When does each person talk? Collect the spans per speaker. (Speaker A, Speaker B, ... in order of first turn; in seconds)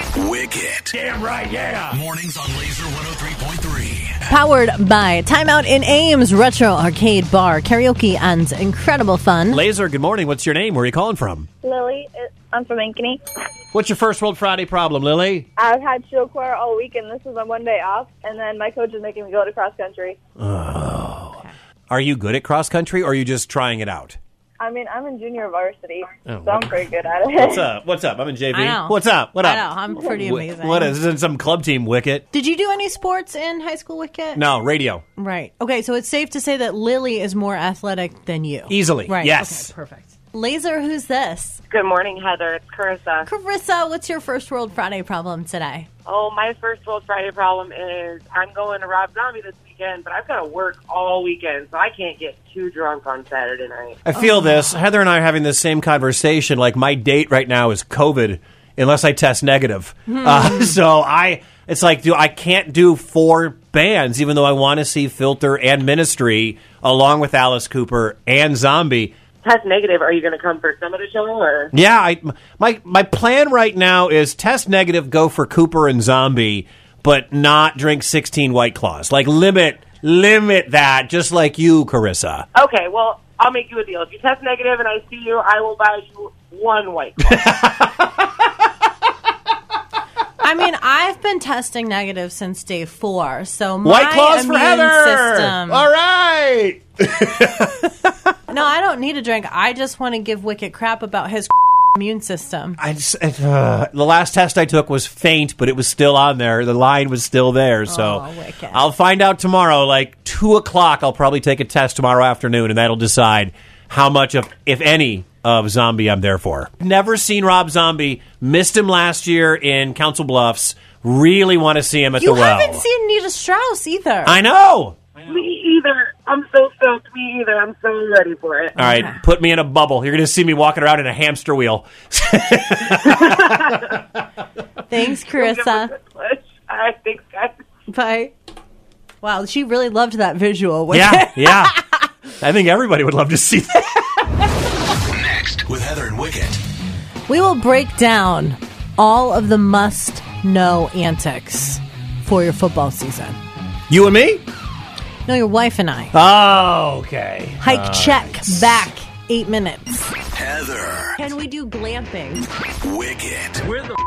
Speaker A: 0.1-0.9, 1.9-4.2, 145.1-146.6, 160.3-161.2, 162.8-163.6
Speaker B: 0.9-2.0, 9.5-11.5, 13.7-15.5, 20.4-24.2, 26.3-32.2, 34.3-35.0, 38.7-39.7, 54.0-69.1, 71.7-82.5, 87.3-88.3, 93.8-98.1, 102.8-122.8, 124.2-125.0, 128.8-134.0, 140.9-141.8, 142.4-144.5, 153.9-154.4, 156.1-158.8
Speaker C: 4.3-9.6, 28.5-30.9, 32.3-34.4, 35.1-41.6, 43.2-45.9, 60.2-60.6, 90.4-95.9, 98.5-102.8, 107.9-108.8, 122.2-124.4, 128.8-129.2, 134.9-135.9, 137.9-138.3, 139.2-141.8, 147.3-153.4, 155.2-156.1, 157.6-160.1, 161.2-162.4
Speaker D: 11.6-13.2, 15.6-20.2, 24.6-27.5
Speaker E: 41.7-43.3, 46.0-54.0, 69.4-71.7, 82.5-87.5, 125.3-128.7, 135.3-137.6